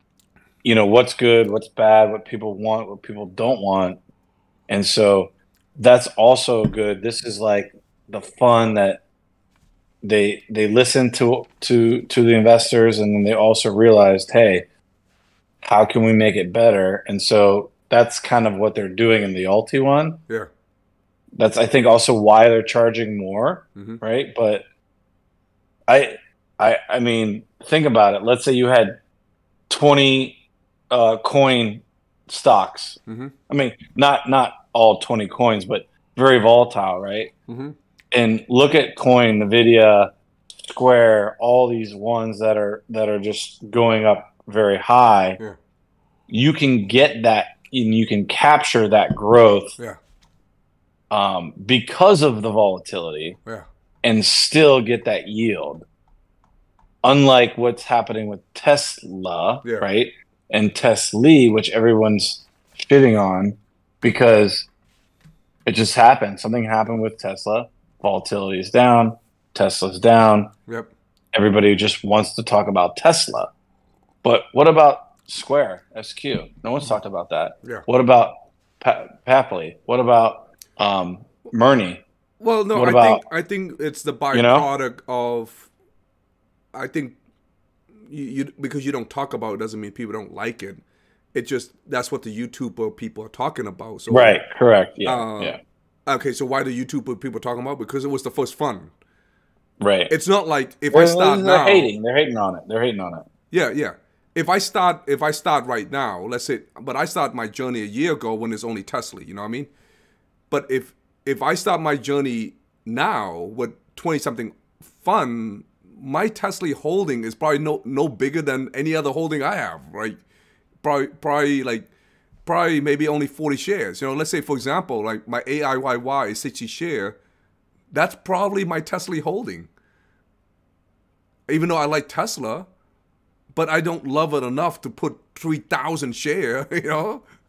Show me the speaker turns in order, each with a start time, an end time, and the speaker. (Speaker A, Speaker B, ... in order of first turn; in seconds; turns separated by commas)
Speaker A: 0.6-4.0, Speaker A: 4.7-9.0, Speaker A: 10.0-14.7, Speaker A: 15.6-20.2, Speaker A: 21.4-24.6, Speaker A: 25.9-29.0, Speaker A: 29.7-30.4, Speaker A: 30.9-37.3, Speaker B: 33.1-33.3, Speaker B: 37.5-37.8, Speaker A: 38.1-45.4, Speaker A: 46.3-49.8, Speaker A: 51.1-53.4, Speaker A: 54.0-55.8, Speaker A: 57.0-64.7, Speaker A: 65.6-70.5, Speaker A: 71.3-73.5, Speaker A: 74.2-82.0, Speaker B: 82.4-85.7, Speaker A: 82.7-83.2, Speaker A: 84.3-84.7, Speaker B: 86.7-87.2, Speaker B: 88.1-90.8, Speaker B: 91.3-94.4, Speaker A: 94.1-95.6, Speaker B: 95.0-98.9, Speaker A: 99.8-100.1, Speaker B: 100.1-101.9, Speaker A: 100.9-103.2, Speaker B: 103.5-109.7, Speaker B: 110.5-120.2, Speaker B: 120.8-121.9, Speaker B: 122.5-127.2, Speaker B: 127.9-129.7, Speaker B: 131.5-132.7, Speaker B: 133.5-137.2